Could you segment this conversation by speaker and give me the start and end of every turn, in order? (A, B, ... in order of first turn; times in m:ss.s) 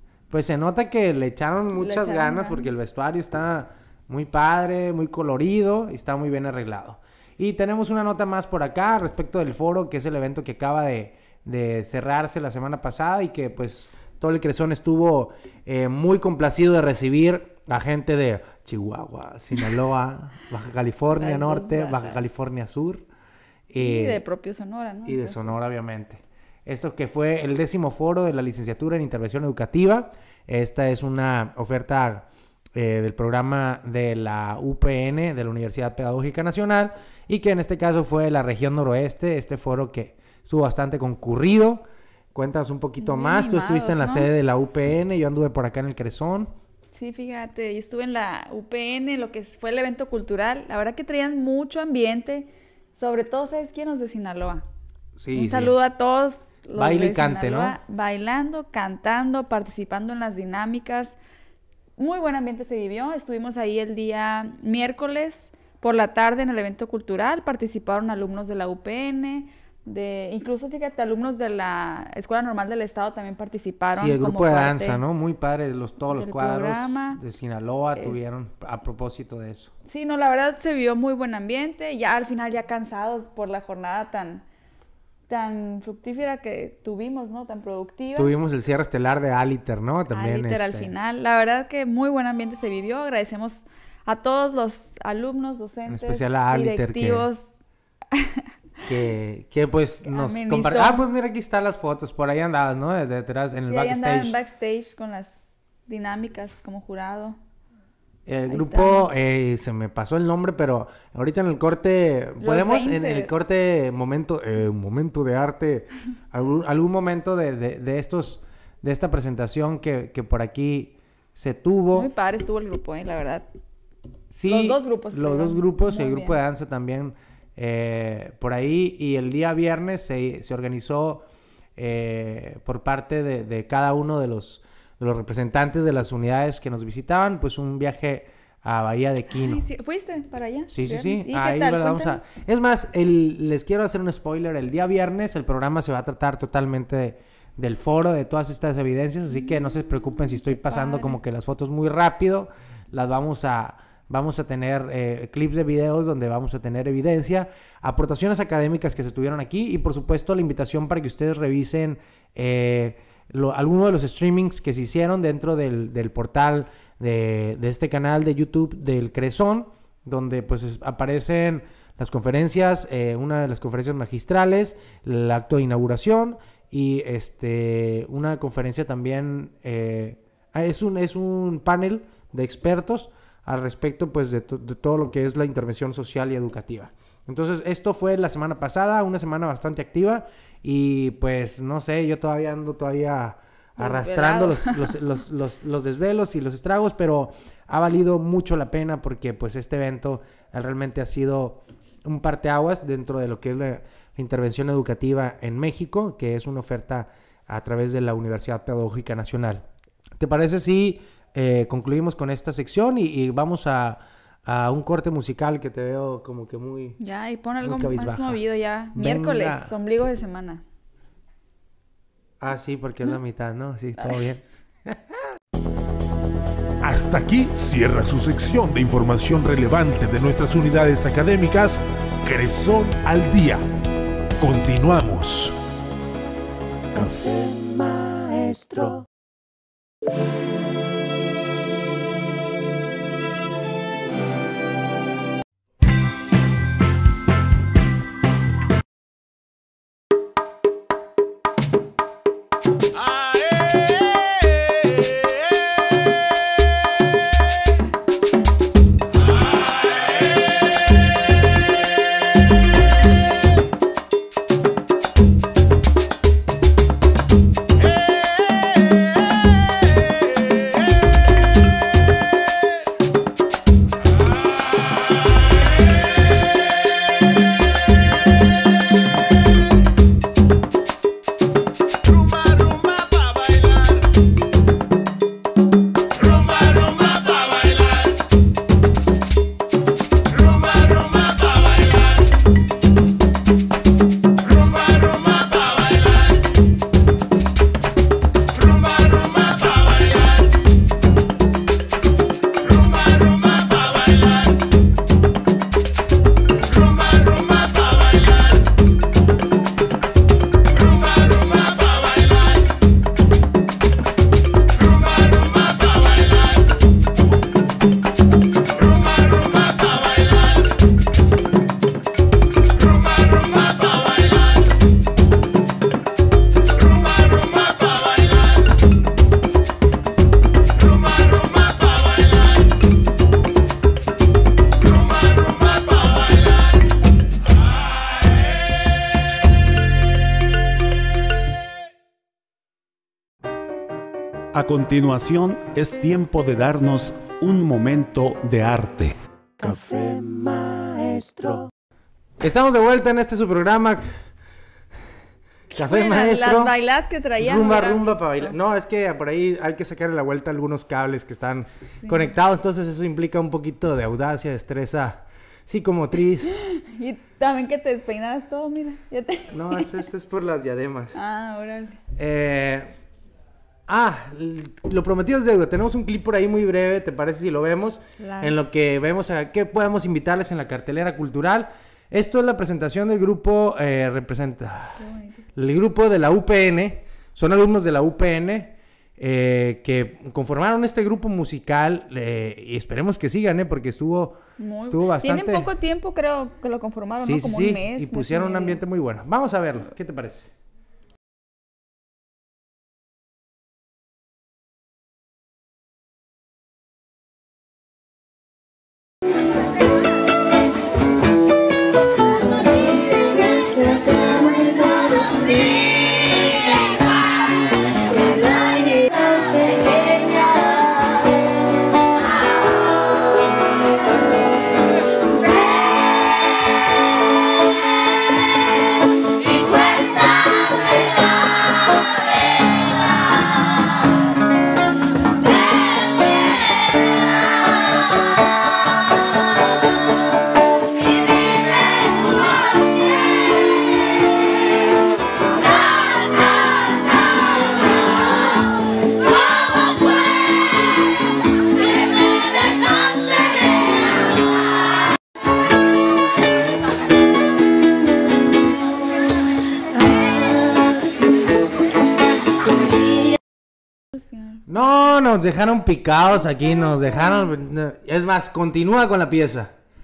0:00.3-0:23.1 A
0:01.7-0:02.7 B
0:21.1-0:22.5 B
0:23.7-0:24.2 A
0:23.8-0:25.5 B
0:25.0-0:46.5 A
0:43.0-0:44.3 B
0:46.9-0:54.6 B
0:55.2-0:55.8 A
0:55.3-1:01.2 B
0:56.8-0:57.8 A
1:02.0-1:15.0 B
1:13.9-1:19.7 A
1:16.1-1:17.2 B
1:18.0-1:18.2 B
1:19.8-1:24.4 B
1:25.3-1:28.3 B
1:28.2-1:30.9 A
1:30.1-1:37.4 B
1:35.9-1:37.3 A
1:38.1-1:38.4 B
1:38.8-1:44.4 A
1:40.0-1:41.1 B
1:43.6-1:45.3 B
1:45.9-1:47.4 B
1:48.2-2:02.1 A
1:48.5-1:49.1 B
1:52.4-1:53.3 B
2:01.9-2:03.5 B
2:04.3-2:11.2 A
2:04.4-2:06.4 B
2:11.8-2:19.6 A
2:19.3-2:22.3 B
2:20.7-3:29.6 A
2:30.1-2:31.2 B
3:13.8-3:14.9 B
3:30.2-3:37.0 A
3:37.0-3:40.6 B
3:37.6-3:38.4 A
3:38.9-3:39.7 A
3:42.4-3:45.0 A
3:46.8-3:53.6 C
3:54.4-3:55.5 C
3:56.9-3:59.0 D
4:42.5-4:43.7 E
5:44.5-5:49.2 E
5:49.6-5:51.7 D
5:52.4-5:54.1 A
5:55.7-5:56.7 A
5:55.7-5:58.6 B
5:57.4-6:06.5 A
6:02.0-6:02.3 B
6:06.5-6:09.9 B
6:09.5-6:11.2 A
6:11.1-6:12.0 B
6:12.2-6:12.9 A
6:13.9-6:35.7 A
6:18.2-6:18.7 B
6:25.0-6:25.4 B
6:34.6-6:38.8 B
6:37.2-6:40.5 A
7:44.1-7:44.6 B
7:44.7-7:49.7 A